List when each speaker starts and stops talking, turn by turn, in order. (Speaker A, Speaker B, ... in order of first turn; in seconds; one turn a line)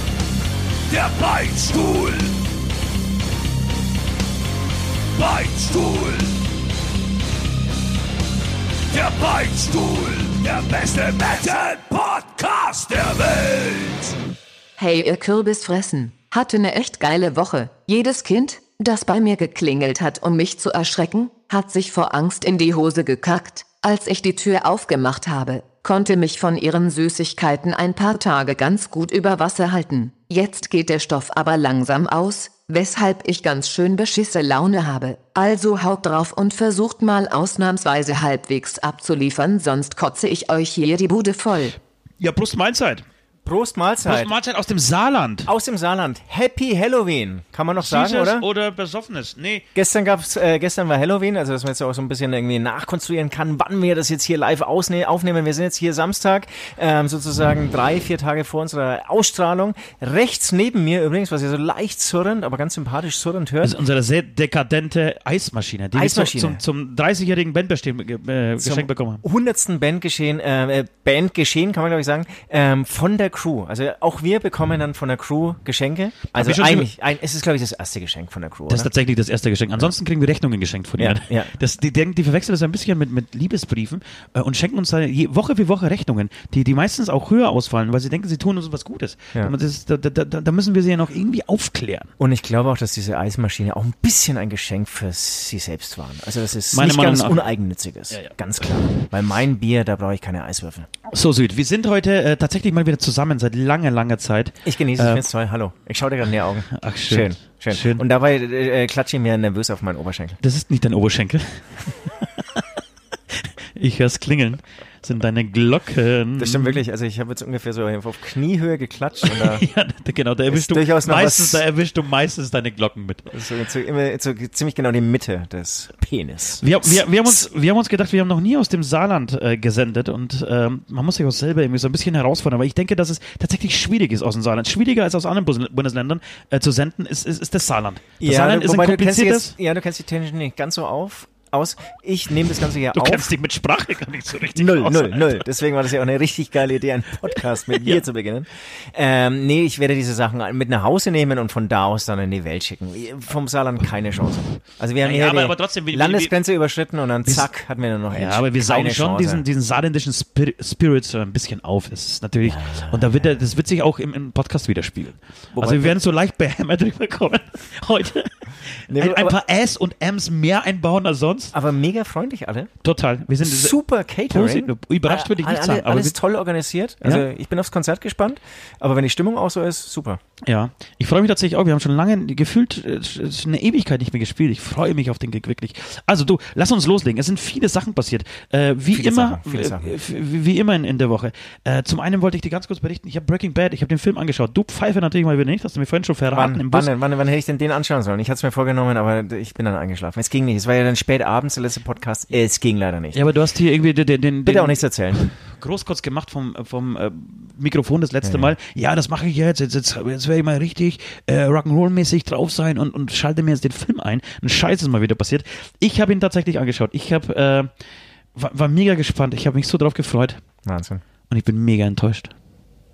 Speaker A: 0.9-2.4
Speaker A: 5.2-6.4
Speaker A: 8.9-14.1
Speaker B: 14.8-41.8
Speaker C: 42.2-43.0
Speaker D: 43.5-44.3
Speaker C: 44.0-45.5
Speaker D: 45.5-48.4
Speaker C: 47.8-49.6
Speaker D: 49.7-63.7
Speaker C: 63.6-69.2
Speaker D: 65.9-66.6
Speaker D: 68.6-78.9
Speaker C: 76.3-76.9
Speaker C: 78.7-92.1
Speaker D: 81.0-81.5
Speaker D: 92.2-100.9
Speaker C: 96.7-97.5
Speaker C: 98.1-98.9
Speaker C: 101.1-105.2
Speaker D: 104.6-110.4
Speaker C: 106.7-108.0
Speaker C: 110.4-112.6
Speaker C: 113.3-116.8
Speaker D: 116.4-119.6
Speaker C: 119.2-123.3
Speaker D: 120.5-121.6
Speaker D: 123.3-127.4
Speaker C: 126.6-139.5
Speaker D: 138.2-143.3
Speaker C: 142.9-145.4
Speaker D: 144.5-159.4
Speaker C: 147.8-148.0
Speaker C: 155.0-156.3
Speaker C: 157.2-157.5
Speaker C: 158.1-171.5
Speaker D: 162.4-163.3
Speaker D: 165.5-165.9
Speaker D: 168.9-169.4
Speaker D: 171.5-172.7
Speaker C: 172.8-176.2
Speaker D: 173.4-180.2
Speaker C: 180.4-196.9
Speaker D: 188.9-189.9
Speaker D: 196.3-203.2
Speaker C: 203.1-217.7
Speaker D: 204.4-205.3
Speaker D: 208.2-208.5
Speaker C: 218.3-220.4
Speaker D: 220.6-221.0
Speaker C: 221.3-222.3